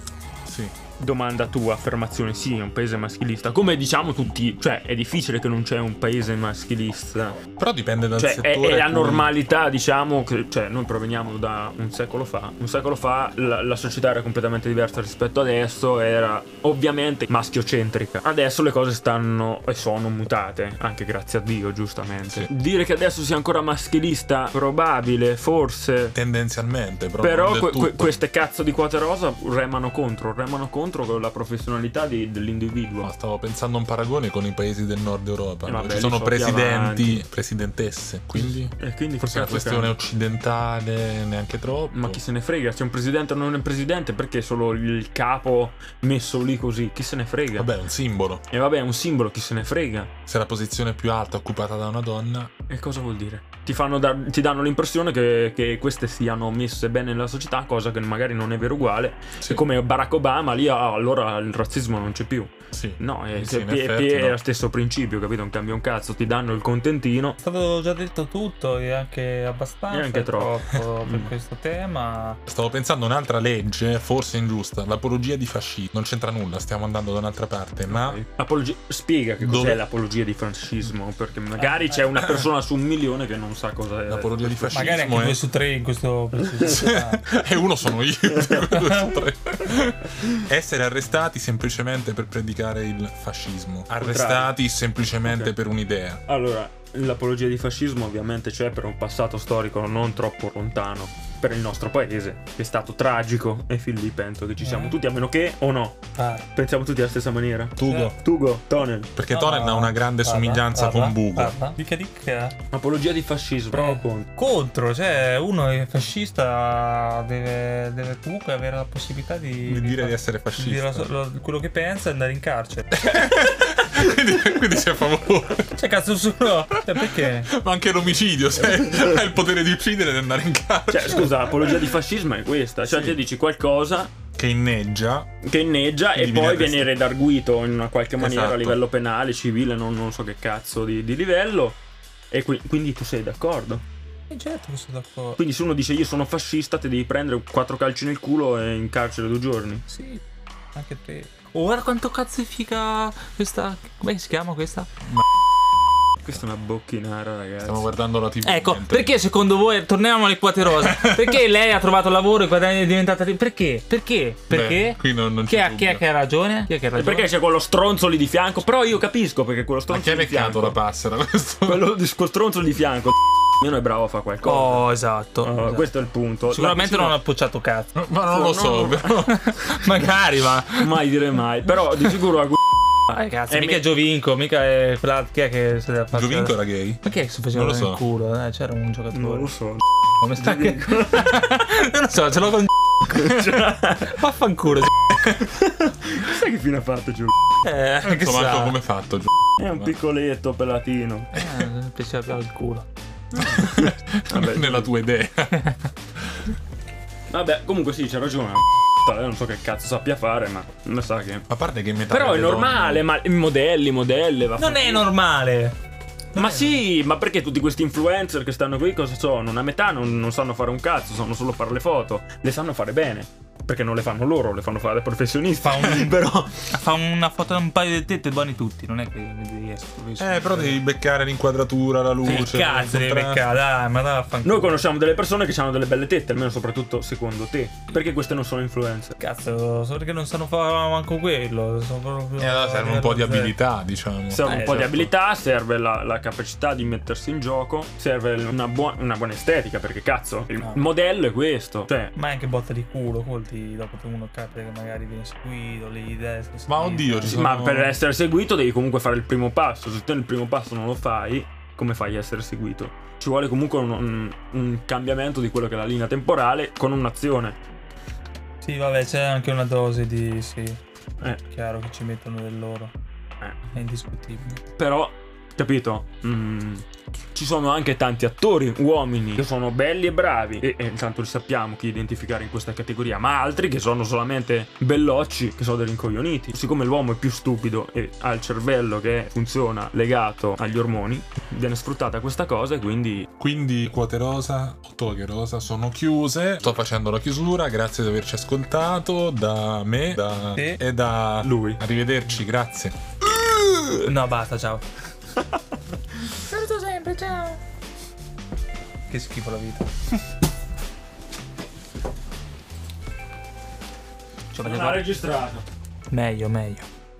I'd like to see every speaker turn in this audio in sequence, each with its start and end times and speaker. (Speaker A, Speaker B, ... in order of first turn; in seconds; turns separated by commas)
Speaker A: 0.4-0.7, Speaker B: 1.0-7.4, Speaker A: 7.6-9.3, Speaker B: 8.2-26.1, Speaker A: 26.1-28.2, Speaker B: 27.2-33.1, Speaker A: 33.0-42.2, Speaker B: 35.6-37.2, Speaker B: 38.4-40.0, Speaker B: 41.9-47.7, Speaker A: 47.5-48.4, Speaker B: 48.5-50.1, Speaker A: 50.3-52.5, Speaker B: 52.7-67.4, Speaker A: 62.7-64.4, Speaker C: 67.4-72.4, Speaker B: 69.9-71.3, Speaker A: 72.5-78.2, Speaker B: 77.9-85.2, Speaker A: 79.4-79.8, Speaker C: 81.6-82.0, Speaker A: 84.1-85.4, Speaker C: 84.7-87.3, Speaker A: 86.6-96.2, Speaker C: 88.7-89.2, Speaker B: 94.0-94.5, Speaker B: 95.2-95.5, Speaker B: 96.2-109.1, Speaker C: 104.6-105.0, Speaker C: 106.1-106.4, Speaker A: 107.8-108.1, Speaker C: 107.8-108.1, Speaker A: 109.2-111.6, Speaker C: 109.3-112.5, Speaker B: 112.7-114.3, Speaker C: 113.7-122.9, Speaker A: 119.6-121.1, Speaker A: 122.9-125.8, Speaker C: 125.7-127.5, Speaker A: 126.7-131.8, Speaker B: 130.9-134.1, Speaker A: 132.8-133.2, Speaker A: 134.3-135.3, Speaker B: 135.4-141.8, Speaker A: 136.1-136.9, Speaker A: 138.2-138.8, Speaker B: 142.3-143.8, Speaker C: 144.3-145.4, Speaker B: 145.4-149.8, Speaker C: 149.9-150.2, Speaker C: 150.7-154.9, Speaker B: 156.2-157.9, Speaker A: 157.6-159.1, Speaker C: 158.4-167.3, Speaker A: 160.8-161.4, Speaker A: 164.5-166.0, Speaker B: 166.9-170.8, Speaker A: 169.9-171.9, Speaker B: 171.6-174.9, Speaker C: 174.4-175.9, Speaker B: 175.4-177.2, Speaker C: 176.5-177.9, Speaker A: 177.9-179.9, Speaker B: 178.3-179.3, Speaker C: 179.2-181.0, Speaker B: 180.7-182.7, Speaker C: 183.1-189.5, Speaker B: 183.5-183.8, Speaker A: 186.1-188.0, Speaker B: 189.1-189.8, Speaker C: 190.2-193.4, Speaker B: 190.4-191.5, Speaker B: 193.0-194.2, Speaker C: 194.1-194.9, Speaker B: 195.1-197.3, Speaker C: 197.6-198.8, Speaker A: 198.1-199.9, Speaker B: 199.6-201.3, Speaker C: 201.3-202.8, Speaker B: 203.3-204.9, Speaker A: 203.4-205.6, Speaker B: 207.3-211.4, Speaker A: 211.5-213.1, Speaker B: 212.1-215.1, Speaker C: 214.6-215.7, Speaker C: 216.3-216.8, Speaker B: 216.3-226.7, Speaker C: 225.6-230.8, Speaker A: 230.2-233.4, Speaker C: 232.2-234.8, Speaker B: 234.4-239.2, Speaker C: 239.2-243.6, Speaker A: 242.4-245.0, Speaker B: 244.3-252.1, Speaker C: 244.4-245.0, Speaker C: 252.1-257.4, Speaker A: 256.7-258.0, Speaker B: 257.2-267.6, Speaker C: 268.6-270.8, Speaker C: 271.4-272.9, Speaker B: 273.4-273.6, Speaker C: 273.7-274.6, Speaker B: 274.8-293.3, Speaker A: 293.4-302.9, Speaker B: 301.4-301.8, Speaker B: 303.2-304.1, Speaker C: 304.0-304.8, Speaker C: 306.4-307.6, Speaker C: 309.1-309.9, Speaker C: 314.5-315.1, Speaker B: 314.6-315.6, Speaker C: 316.1-316.9